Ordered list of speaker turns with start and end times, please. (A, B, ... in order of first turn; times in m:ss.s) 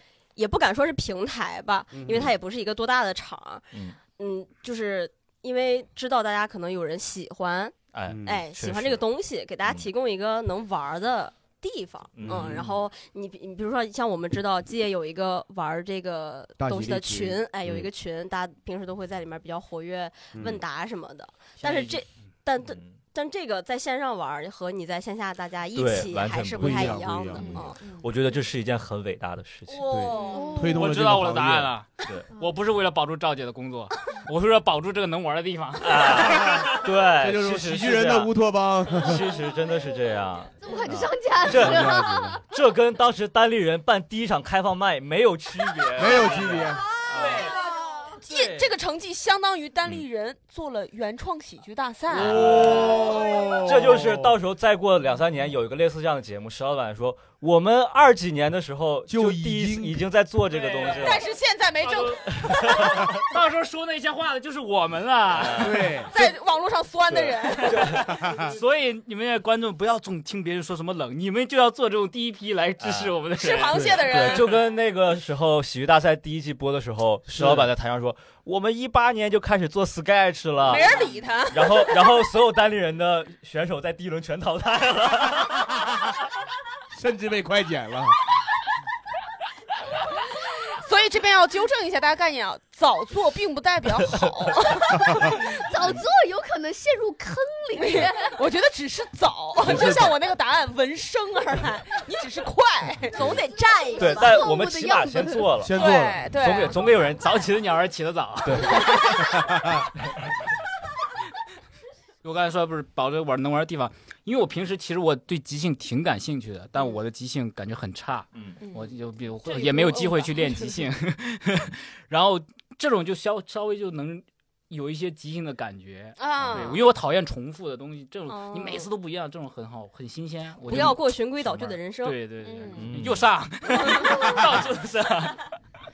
0:00.4-0:27.8 A
0:01.9-0:02.3 B
0:07.9-0:09.0 C
0:08.1-0:08.4 B
0:12.2-0:12.7 C
0:12.2-0:12.8 B
0:16.6-0:17.9 B
0:20.3-0:20.6 B
0:21.6-0:22.0 D
0:22.6-0:22.9 C
0:25.7-0:29.9 C
0:26.6-0:27.6 B
0:27.3-0:28.0 E
0:29.7-0:30.6 A
0:29.9-0:31.7 B
0:29.9-0:30.4 E
0:30.2-0:30.9 F
0:30.7-0:36.8 D
0:35.8-0:38.3 C
0:36.4-0:39.3 B
0:38.9-0:47.6 C
0:40.6-0:42.4 F
0:41.5-0:42.4 B
0:45.9-0:46.8 B
0:47.1-0:47.6 D
0:47.2-0:53.1 E
0:48.2-0:48.7 C
0:52.1-1:01.2 C
0:52.1-0:54.3 B
0:59.1-1:00.0 B
1:00.5-1:01.2 D
1:01.0-1:03.2 E
1:01.8-1:06.0 D
1:02.5-1:02.8 C
1:05.3-1:05.9 C
1:05.5-1:06.1 B
1:06.1-1:08.1 E
1:07.1-1:08.1 C
1:07.6-1:14.4 D
1:08.1-1:08.6 B
1:12.8-1:13.2 C
1:13.4-1:14.6 E
1:13.7-1:14.0 B
1:13.9-1:20.9 C
1:17.3-1:17.7 B
1:20.6-1:22.0 E
1:21.5-1:25.7 C
1:26.9-1:28.2 B
1:30.4-1:35.5 E
1:35.1-1:38.4 F
1:37.8-1:44.2 E
1:39.6-1:40.1 B
1:43.2-1:45.5 F
1:44.0-1:47.4 C
1:45.5-1:46.3 B
1:45.7-1:46.9 E
1:46.7-1:49.4 D
1:48.5-1:48.8 C
1:49.2-1:49.8 B
1:52.2-2:15.5 D
1:58.6-1:58.9 E
1:59.4-2:00.9 E
2:06.2-2:06.9 E
2:06.4-2:06.8 C
2:08.3-2:08.9 A
2:10.7-2:12.6 A
2:10.7-2:11.0 C
2:12.4-2:12.9 E
2:12.8-2:13.3 C